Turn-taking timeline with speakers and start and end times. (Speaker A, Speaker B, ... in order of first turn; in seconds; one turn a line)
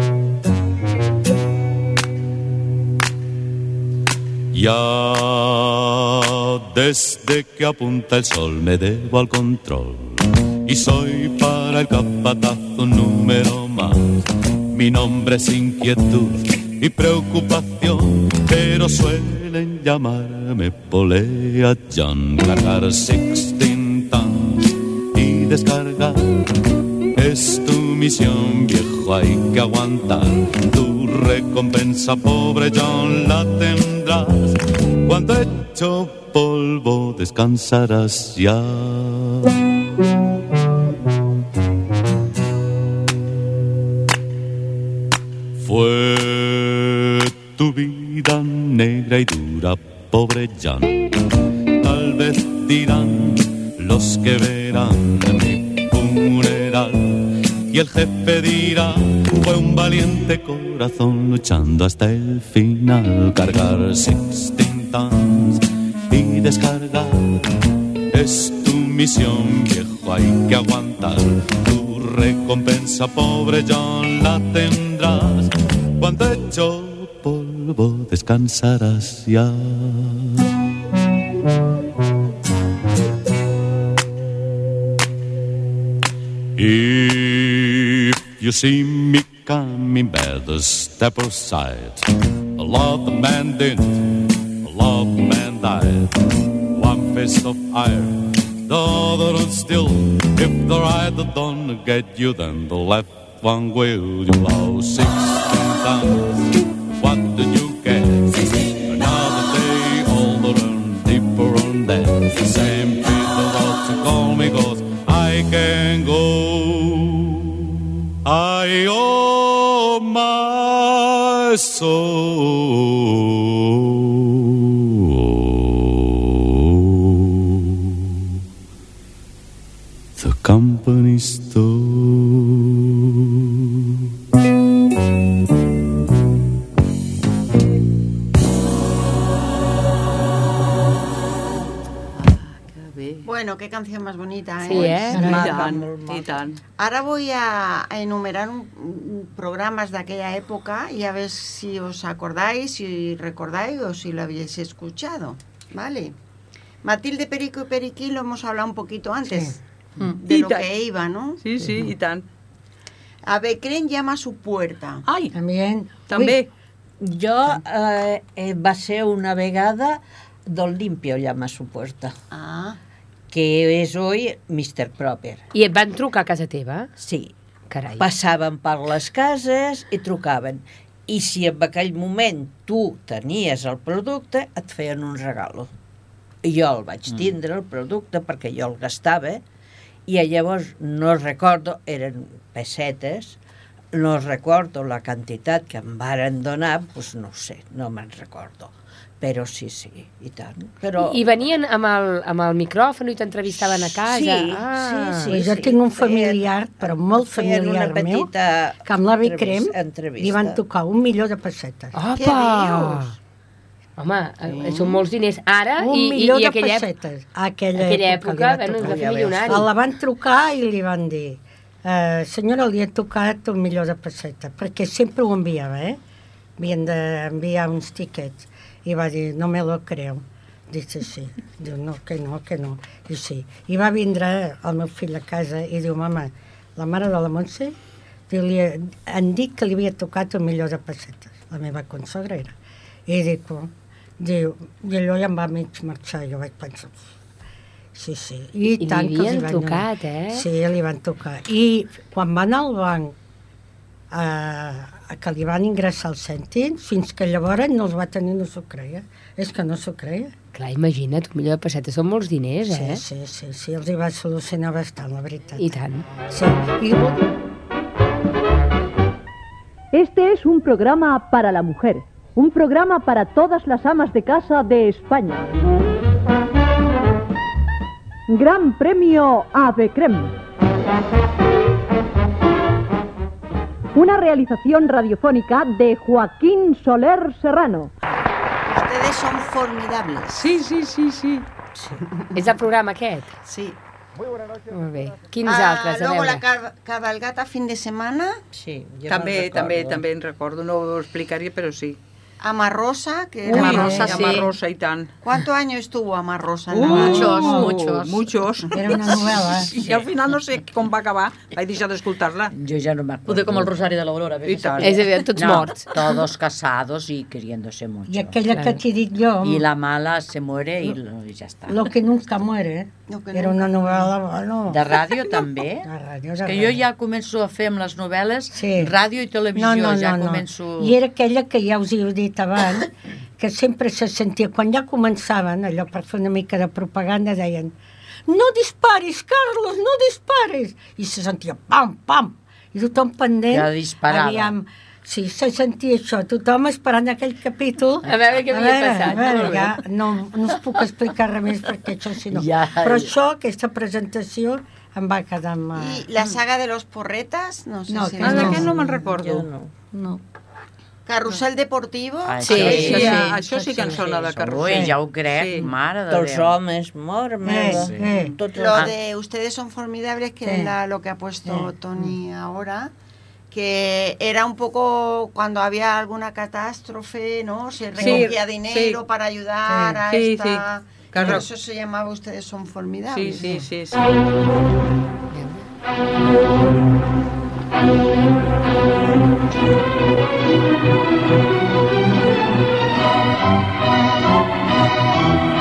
Speaker A: 4.5-26.4
Speaker A: 27.1-39.5
Speaker A: 45.6-51.0
Speaker A: 51.8-67.5
Speaker A: 68.1-80.4
Speaker A: 86.6-92.0
Speaker A: 92.6-94.1
Speaker A: 94.6-96.1
Speaker A: 96.7-117.6
Speaker A: 118.2-128.0
Speaker A: 130.2-133.6
Speaker B: 142.2-143.3
Speaker C: 143.2-145.7
Speaker D: 144.6-145.2
Speaker E: 144.9-146.4
Speaker B: 145.1-146.6
Speaker C: 146.8-156.2
Speaker C: 156.8-159.6
Speaker F: 159.2-159.6
Speaker C: 160.2-161.4
Speaker B: 160.2-160.7
Speaker B: 161.4-162.2
Speaker C: 163.3-165.0
Speaker B: 165.1-165.3
Speaker F: 165.3-166.4
Speaker B: 166.1-166.5
Speaker E: 167.0-172.1
Speaker C: 172.3-172.8
Speaker E: 173.3-175.4
Speaker D: 175.5-176.9
Speaker E: 177.0-177.3
Speaker D: 177.7-178.0
Speaker E: 178.0-185.7
Speaker E: 186.4-189.4
Speaker E: 190.1-193.4
Speaker E: 193.9-201.2
Speaker D: 201.0-205.3
Speaker E: 203.5-210.6
Speaker F: 205.1-208.3
Speaker F: 208.8-211.9
Speaker D: 211.9-213.1
Speaker C: 212.1-213.1
Speaker D: 214.0-216.9
Speaker C: 214.5-215.0
Speaker F: 215.8-226.0
Speaker D: 217.8-219.7
Speaker E: 218.8-219.7
Speaker F: 226.6-237.8
Speaker F: 238.3-242.5
Speaker F: 243.1-247.1
Speaker F: 247.9-253.1
Speaker D: 248.8-250.5
Speaker F: 254.1-260.3
Speaker D: 260.5-263.0
Speaker F: 262.7-265.7
Speaker D: 265.6-266.0
Speaker F: 266.3-267.2
Speaker G: 269.9-275.6
Speaker G: 278.3-280.3
Speaker G: 283.9-287.9
Speaker C: 288.6-290.5
Speaker B: 290.3-291.4
Speaker E: 291.8-292.0
Speaker D: 292.3-293.4
Speaker C: 293.4-293.8
Speaker D: 294.7-296.4
Speaker C: 295.4-298.4
Speaker E: 298.5-300.0
Speaker B: 299.1-302.0
Speaker C: 302.4-304.3
Speaker H: 303.5-304.5
Speaker B: 303.5-305.1
Speaker C: 305.2-307.6
Speaker B: 306.7-312.5
Speaker F: 306.9-307.7
Speaker H: 306.9-308.3
Speaker F: 308.7-309.7
Speaker I: 312.5-313.7
Speaker H: 313.3-315.2
Speaker B: 314.4-314.9
Speaker D: 314.8-315.9
Speaker I: 315.3-318.4
Speaker F: 318.1-319.6
Speaker I: 319.4-321.8
Speaker F: 321.7-324.9
Speaker C: 323.1-324.1
Speaker I: 324.7-325.9
Speaker F: 325.8-326.8
Speaker I: 326.4-330.9
Speaker F: 328.5-328.9
Speaker F: 329.5-337.7
Speaker F: 338.3-356.1
Speaker I: 343.5-344.5
Speaker D: 348.1-349.7
Speaker I: 352.3-353.1
Speaker C: 355.8-358.8
Speaker E: 358.1-359.8
Speaker F: 358.2-358.7
Speaker B: 358.2-359.5
Speaker H: 359.9-360.2
Speaker C: 361.1-363.3
Speaker I: 362.2-363.2
Speaker B: 362.5-365.7
Speaker E: 362.6-364.1
Speaker F: 363.0-364.0
Speaker I: 364.4-366.6
Speaker F: 364.5-364.9
Speaker E: 366.1-368.9
Speaker F: 367.4-368.4
Speaker I: 367.7-368.0
Speaker B: 368.1-368.4
Speaker C: 368.5-372.9
Speaker F: 370.4-370.7
Speaker C: 373.5-383.5
Speaker F: 378.0-378.3
Speaker B: 378.0-379.0
Speaker F: 379.6-380.0
Speaker B: 380.1-381.4
Speaker B: 383.1-384.0
Speaker D: 385.3-385.6